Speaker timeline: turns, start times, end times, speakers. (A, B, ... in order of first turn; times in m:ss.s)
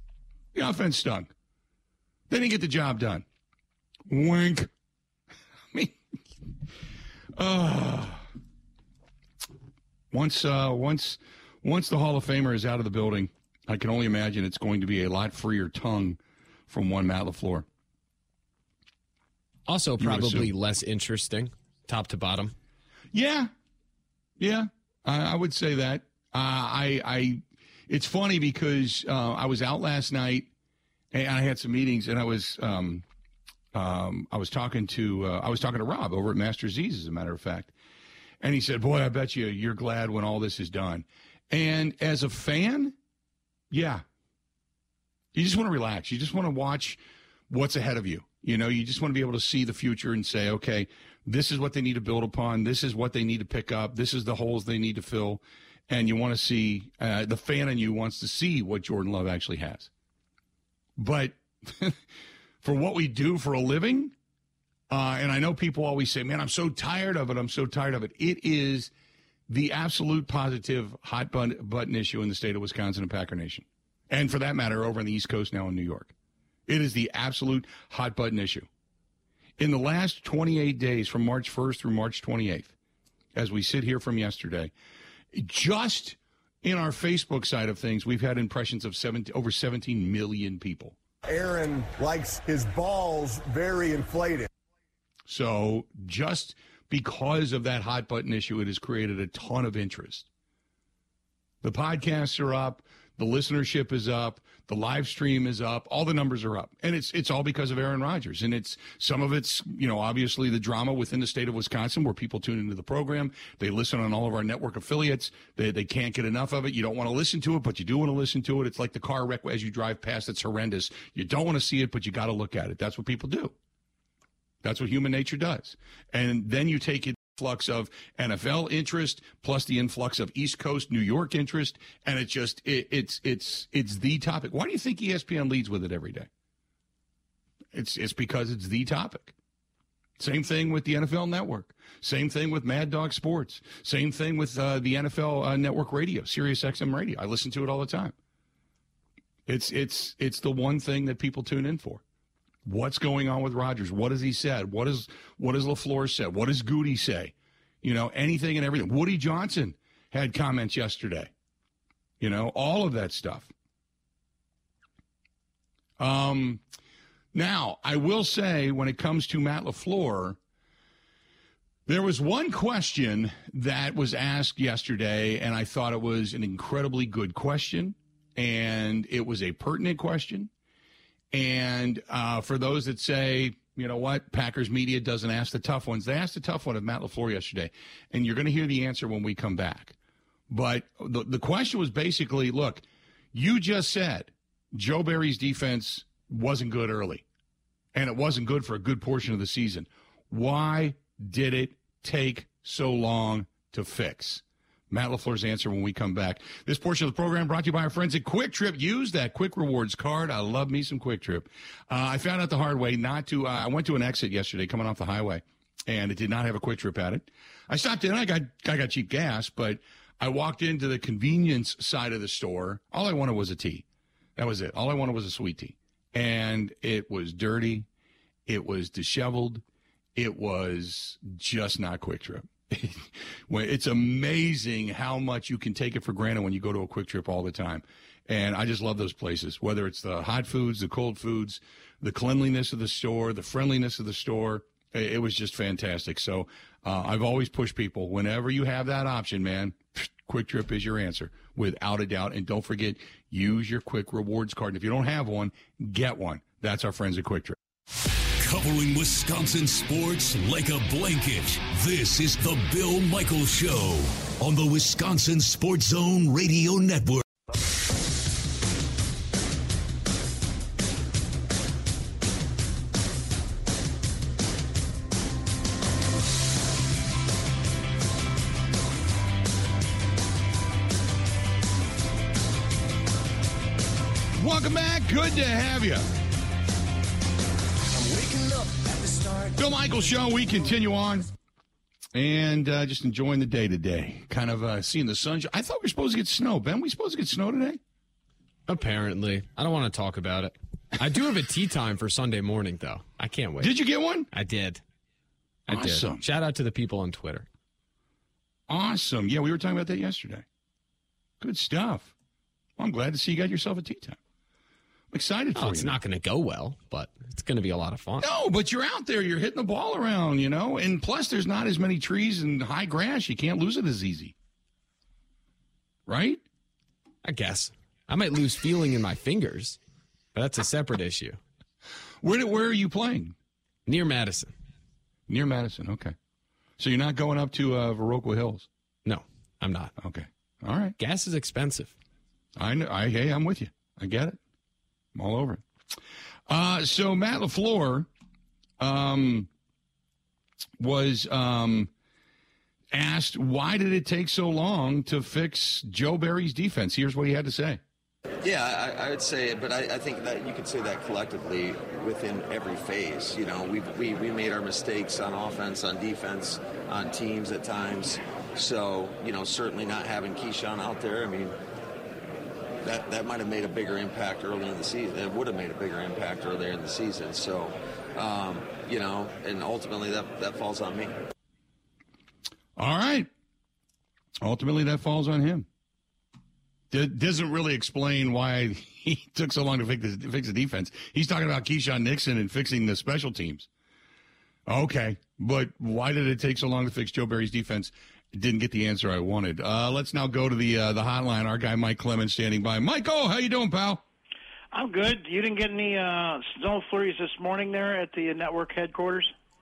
0:00.5-0:01.3 A
0:02.3-0:03.2 A
0:04.1-0:04.7 A
0:07.4-0:08.3 A
0:10.1-0:17.7 A
0:19.7-0:22.5 B
0:20.0-0:20.5 A
0:23.1-0:23.5 A
0:24.4-0:30.5 A
0:31.1-0:33.0 A
0:33.7-0:37.7 A
0:38.4-0:43.0 A
0:43.7-0:44.0 A
0:45.3-0:59.9 A
1:01.0-1:02.0 A
1:02.6-1:04.2 A
1:04.9-1:08.9 A
1:09.5-1:16.1 A
1:16.7-1:18.7 A
1:19.6-1:22.7 A
1:23.4-1:24.7 A
1:25.3-1:31.0 A
1:31.2-1:34.5 C
1:35.3-1:40.3 A
1:41.6-2:03.6 A
2:04.6-2:16.3 A
2:17.7-2:19.3 A
2:20.2-2:28.2 A
2:29.5-2:32.0 A
2:32.6-2:41.3 A
2:42.2-2:43.5 A
2:46.0-2:46.6 A
2:47.3-2:50.4 A
2:51.9-3:00.5 A
3:01.3-3:10.0 A
3:10.5-3:17.2 A
3:17.9-3:47.9 A
3:48.5-3:49.6 A
3:50.2-4:17.6 A
4:18.4-4:27.2 D
4:44.4-4:46.1 A
4:48.0-4:48.7 C
4:49.5-4:51.3 A
4:52.1-4:57.8 A
4:58.7-5:03.7 B
5:03.6-5:04.3 A
5:04.3-5:04.8 B
5:05.7-5:07.5 B
5:05.7-5:06.2 A
5:08.7-5:10.4 A
5:11.4-5:12.1 A
5:12.8-5:14.2 A
5:15.1-5:16.0 A
5:15.6-5:18.3 B
5:18.2-5:24.4 A
5:26.1-5:26.4 A
5:27.2-5:29.8 B
5:30.3-5:31.4 B
5:32.2-5:33.4 A
5:33.9-5:34.5 B
5:35.3-5:36.2 A
5:36.8-5:38.7 A
5:39.0-5:39.9 B
5:40.0-5:41.0 A
5:41.0-5:42.0 B
5:42.6-5:44.4 A
5:45.1-5:45.6 A
5:46.5-5:48.1 A
5:48.8-5:49.5 A
5:50.8-5:51.9 A
5:52.9-5:57.8 A
5:58.4-6:11.6 E
6:12.8-6:21.1 E
6:22.8-6:23.3 A
6:24.4-6:25.7 A
6:26.9-6:33.7 A
6:34.7-6:44.0 A
6:44.7-6:49.3 F